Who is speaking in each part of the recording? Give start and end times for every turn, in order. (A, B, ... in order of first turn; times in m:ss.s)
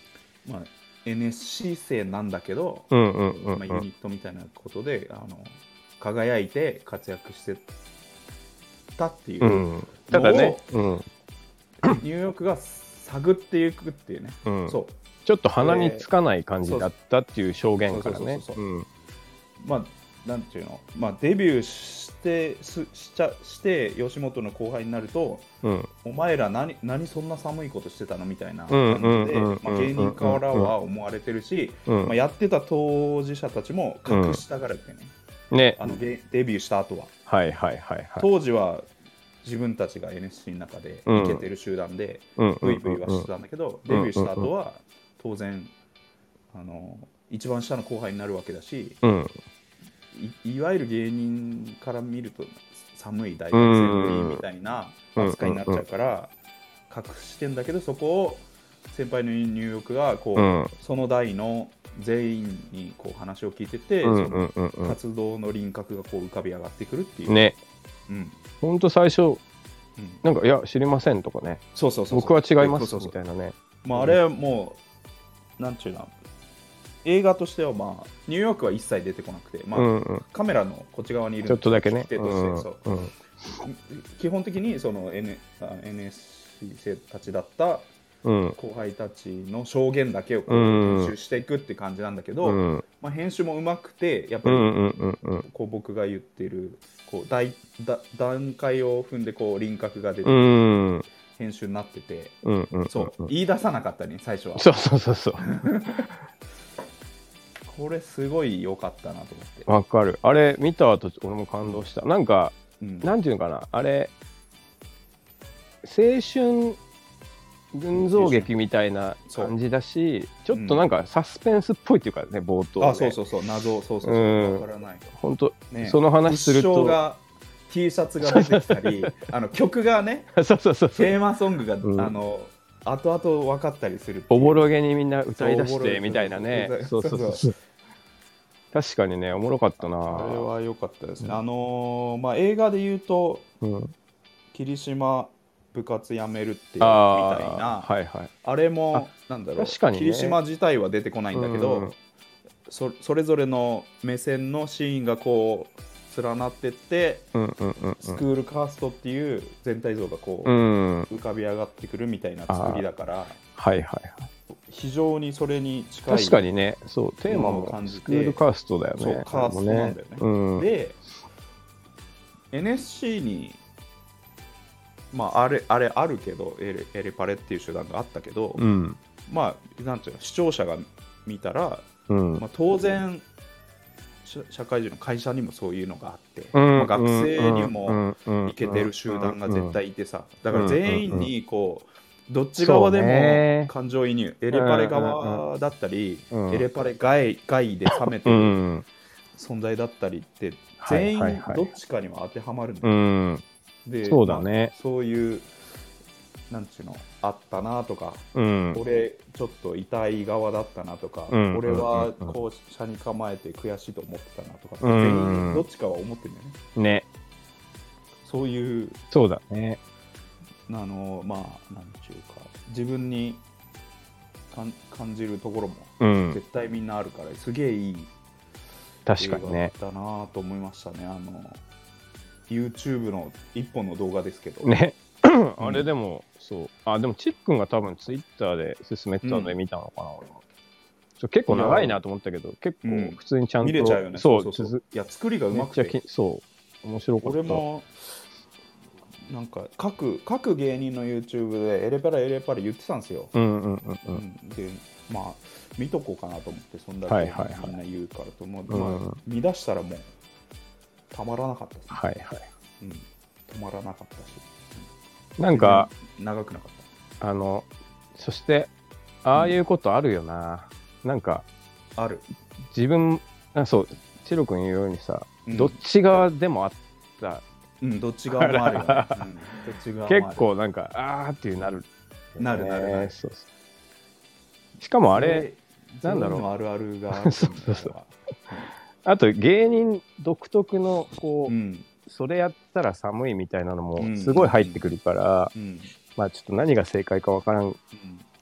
0:00.4-0:02.9 A
0:02.9-0:03.8 B
0:03.4-0:07.7 A
0:09.0-0:10.6 A
0:09.4-0:11.0 B
0:11.8-0:14.9 A
0:14.4-0:18.8 B
0:15.6-0:16.1 A
0:16.6-0:16.9 A
0:17.8-0:18.6 A
0:19.6-0:25.5 A
0:25.6-0:25.9 B
0:26.0-0:35.1 A
0:28.7-0:30.7 B
0:31.9-0:32.1 B
0:34.1-0:34.4 B
0:35.5-0:36.0 B
0:35.8-0:37.1 A
0:37.3-0:38.3 B
0:38.2-0:38.8 A
0:39.4-0:45.7 A
0:41.1-0:41.4 B
0:42.4-0:43.3 B
0:43.9-0:44.5 B
0:46.5-0:49.0 A
0:49.0-0:49.4 B
0:50.1-0:56.3 A
0:53.5-0:54.4 B
0:55.2-0:55.8 B
0:56.9-1:07.4 A
1:00.4-1:00.7 B
1:04.0-1:05.0 B
1:07.3-1:07.6 B
1:08.1-1:08.4 A
1:08.6-1:09.4 B
1:10.0-1:10.2 A
1:10.2-1:14.2 B
1:11.7-1:13.1 A
1:13.8-1:14.8 A
1:15.6-1:16.1 A
1:17.0-1:23.0 A
1:19.7-1:20.2 B
1:21.4-1:23.1 B
1:23.6-1:27.9 A
1:28.2-1:28.6 B
1:28.5-1:34.7 A
1:30.5-1:31.1 B
1:32.4-1:32.8 B
1:34.4-1:35.4 B
1:35.4-1:40.8 A
1:40.2-1:41.0 B
1:41.3-1:44.7 A
1:42.4-1:43.3 B
1:44.6-1:46.0 B
1:45.4-1:46.0 A
1:47.6-1:49.7 A
1:49.7-1:54.1 B
1:52.8-1:53.1 A
1:55.8-1:56.8 B
1:57.7-2:03.2 B
1:57.9-1:58.5 A
2:00.5-2:00.9 A
2:02.8-2:05.1 A
2:04.0-2:07.0 B
2:05.7-2:10.3 A
2:08.2-2:09.2 B
2:10.3-2:11.2 B
2:10.9-2:14.6 A
2:11.8-2:12.1 B
2:14.3-2:17.5 B
2:15.4-2:17.5 A
2:18.7-2:20.5 B
2:19.9-2:23.5 A
2:23.6-2:23.9 B
2:24.5-2:27.9 A
2:26.8-2:28.3 B
2:28.4-2:31.9 A
2:28.9-2:30.4 B
2:31.3-2:31.9 B
2:32.7-2:37.3 A
2:37.3-2:38.2 B
2:38.0-2:43.4 A
2:40.4-2:41.1 B
2:42.5-2:42.8 B
2:43.6-2:44.3 B
2:44.7-2:46.4 A
2:46.1-2:50.6 B
2:47.3-2:48.4 A
2:49.0-2:51.0 A
2:52.5-2:53.6 A
2:55.1-2:58.7 A
2:58.6-2:59.0 B
2:59.3-3:03.2 A
3:02.1-3:02.4 B
3:04.2-3:18.6 A
3:06.5-3:09.8 B
3:10.5-3:11.3 B
3:12.6-3:13.7 B
3:14.5-3:15.4 B
3:16.3-3:16.6 B
3:17.9-3:18.8 B
3:19.3-3:23.0 A
3:20.8-3:21.7 B
3:22.8-3:23.4 B
3:23.8-3:25.5 A
3:24.0-3:24.7 B
3:26.5-3:36.6 A
3:28.3-3:28.8 B
3:31.3-3:32.4 B
3:34.8-3:35.6 B
3:36.8-3:37.0 B
3:38.2-3:39.0 A
3:39.1-3:39.8 B
3:40.7-3:43.4 A
3:44.5-3:48.1 A
3:46.0-3:46.4 B
3:49.0-3:49.7 B
3:49.2-3:51.6 A
3:52.5-3:54.7 A
3:54.6-4:00.4 B
3:55.6-3:55.9 A
3:59.2-3:59.6 A
4:01.2-4:04.8 B
4:01.5-4:02.0 A
4:02.8-4:06.0 A
4:05.5-4:07.6 B
4:07.2-4:07.9 A
4:09.2-4:13.3 A
4:13.3-4:14.2 B
4:14.1-4:20.1 A
4:17.1-4:17.7 B
4:18.7-4:19.2 B
4:21.1-4:22.0 A
4:21.9-4:22.5 B
4:22.8-4:24.9 A
4:25.4-4:25.9 B
4:25.5-4:26.9 A
4:27.2-4:28.7 B
4:29.2-4:31.4 B
4:32.0-4:32.2 A
4:32.7-4:37.4 B
4:35.4-4:35.8 A
4:37.8-4:40.4 A
4:38.4-4:39.3 B
4:40.1-4:43.4 B
4:42.4-4:43.1 A
4:44.8-4:45.5 B
4:45.1-4:48.7 A
4:46.0-4:46.4 B
4:47.2-4:47.9 B
4:49.0-4:51.5 B
4:51.5-4:51.9 A
4:52.0-4:55.5 B
4:54.0-4:54.8 A
4:55.5-4:55.9 A
4:56.1-4:57.8 B
4:57.9-4:58.2 A